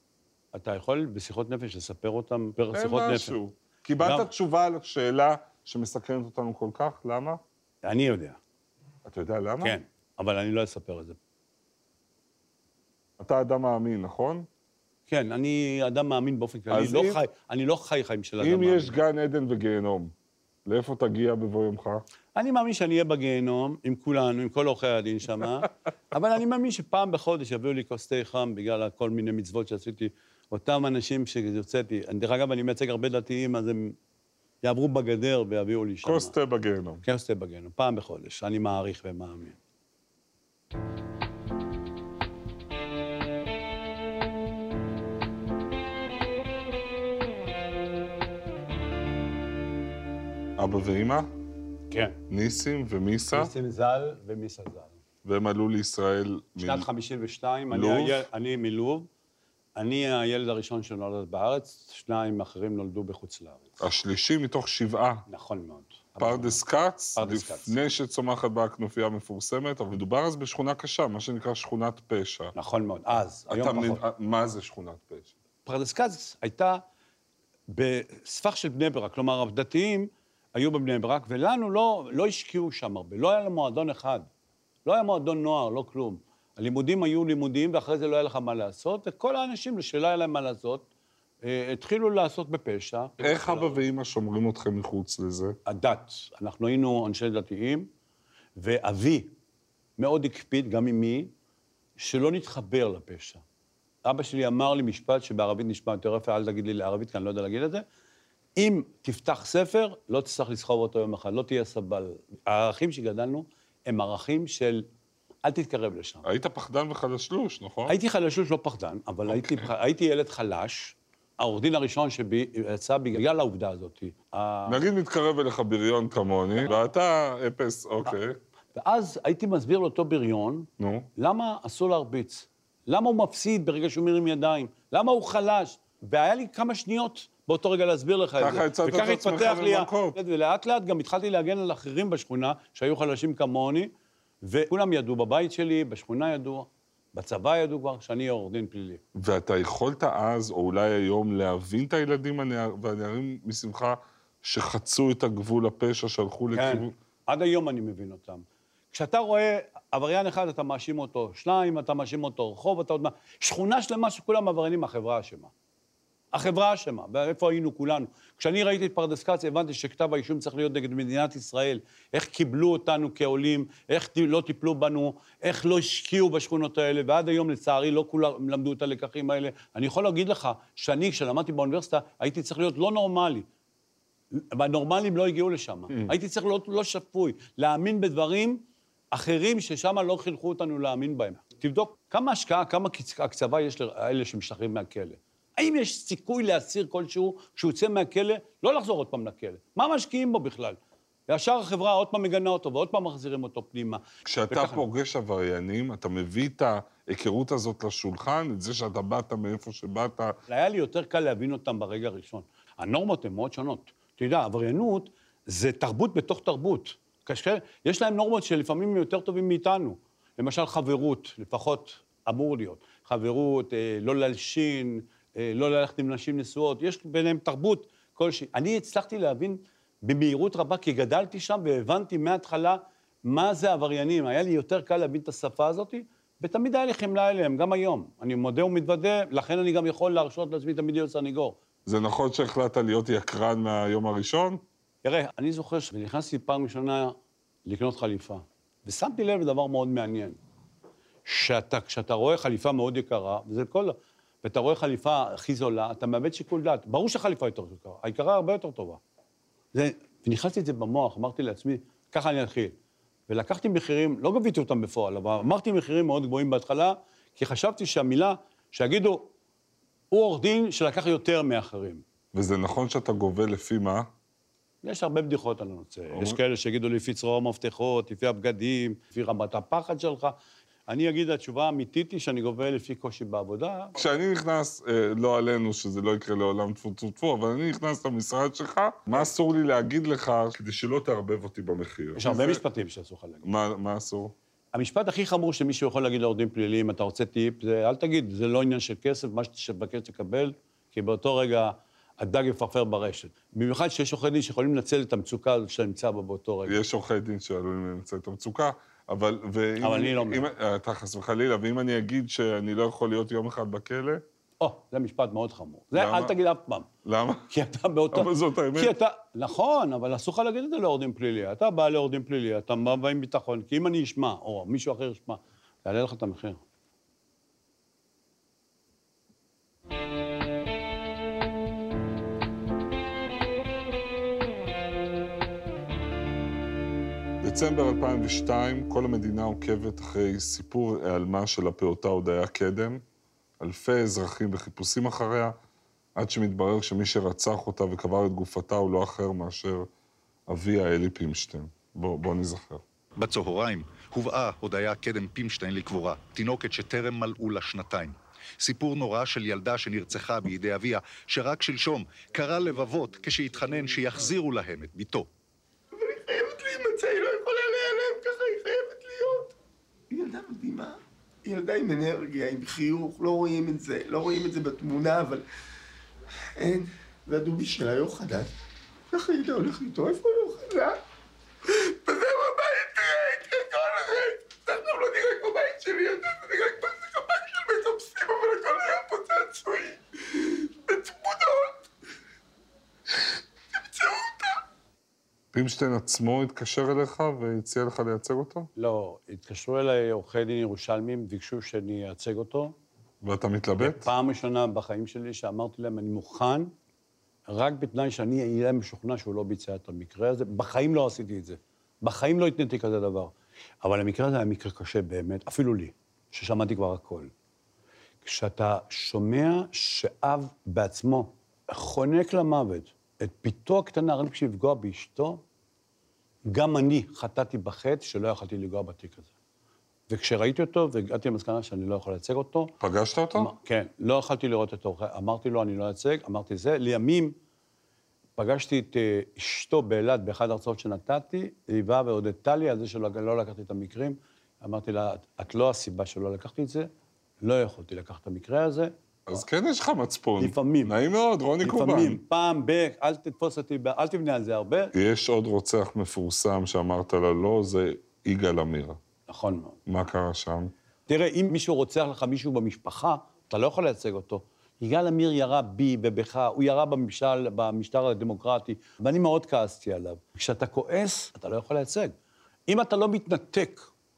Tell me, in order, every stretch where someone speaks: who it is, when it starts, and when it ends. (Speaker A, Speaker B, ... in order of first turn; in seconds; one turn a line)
Speaker A: 0.5-3.4
Speaker B: 2.7-7.4
Speaker A: 4.0-4.3
Speaker A: 7.8-8.4
Speaker B: 9.1-9.8
Speaker A: 9.6-11.2
Speaker B: 13.2-14.5
Speaker A: 15.1-18.9
Speaker B: 16.7-17.2
Speaker B: 18.4-20.1
Speaker B: 20.7-22.0
Speaker A: 22.4-34.0
Speaker A: 34.6-36.3
Speaker B: 36.0-37.0
Speaker A: 37.0-39.6
Speaker B: 50.6-51.3
Speaker A: 51.9-52.2
Speaker B: 52.3-53.5
Speaker A: 53.3-55.0
Speaker B: 55.2-56.9
Speaker A: 56.6-59.1
Speaker B: 57.7-58.3
Speaker A: 59.8-63.8
Speaker B: 63.8-65.2
Speaker A: 65.3-66.6
Speaker B: 66.2-72.5
Speaker A: 67.2-67.7
Speaker A: 72.5-74.0
Speaker B: 73.5-75.3
Speaker A: 75.7-76.8
Speaker A: 77.7-84.3
Speaker A: 84.8-90.9
Speaker A: 91.4-93.8
Speaker B: 93.2-95.6
Speaker A: 95.7-97.9
Speaker A: 98.6-99.3
Speaker A: 100.0-101.3
Speaker A: 102.0-103.4
Speaker A: 104.0-107.8
Speaker A: 108.6-114.9
Speaker A: 115.4-116.3
Speaker B: 116.2-118.0
Speaker A: 117.9-124.8
Speaker B: 119.3-119.7
Speaker B: 124.7-128.4
Speaker A: 128.8-143.9
Speaker B: 130.8-131.1
Speaker B: 138.4-140.2
Speaker A: 144.4-149.0
Speaker B: 149.2-156.9
Speaker A: 156.5-165.5
Speaker A: 166.3-183.5
Speaker A: 184.3-204.8
Speaker B: 204.2-210.3
Speaker A: 210.5-241.6
Speaker B: 241.9-244.6
Speaker A: 245.0-250.4
Speaker A: 251.2-259.0
Speaker A: 259.7-262.8
Speaker A: 263.3-269.3
Speaker A: 270.1-272.0
Speaker B: 272.3-274.1
Speaker A: 274.8-280.4
Speaker B: 276.1-276.4
Speaker A: 280.9-284.0
Speaker B: 284.0-292.6
Speaker A: 292.2-293.5
Speaker B: 293.4-294.3
Speaker A: 294.7-306.8
Speaker B: 306.7-314.2
Speaker A: 309.8-310.5
Speaker A: 314.6-316.9
Speaker B: 315.9-316.4
Speaker B: 317.1-317.5
Speaker A: 317.5-326.6
Speaker B: 318.1-318.9
Speaker B: 337.4-343.0
Speaker B: 343.6-345.6
Speaker B: 346.2-349.9
Speaker B: 350.5-352.8
Speaker C: 353.2-365.3
Speaker D: 366.0-369.6
Speaker D: 370.1-375.4
Speaker D: 376.6-378.5
Speaker D: 379.1-381.0
Speaker D: 381.6-391.8
Speaker D: 393.1-394.6
Speaker B: 395.5-398.7
Speaker A: 398.8-402.7
Speaker B: 403.2-404.1
Speaker A: 403.8-406.7
Speaker A: 407.5-417.3
Speaker A: 418.2-425.4
Speaker A: 426.5-429.3
Speaker A: 430.1-432.7
Speaker B: 432.8-433.5
Speaker A: 433.4-437.4
Speaker A: 438.4-446.9
Speaker A: 447.4-448.9
Speaker B: 449.3-452.2
Speaker A: 450.4-450.9
Speaker A: 451.6-454.9
Speaker B: 454.9-459.0
Speaker A: 459.3-459.8
Speaker B: 459.9-460.7
Speaker A: 461.1-472.1
Speaker A: 472.7-473.9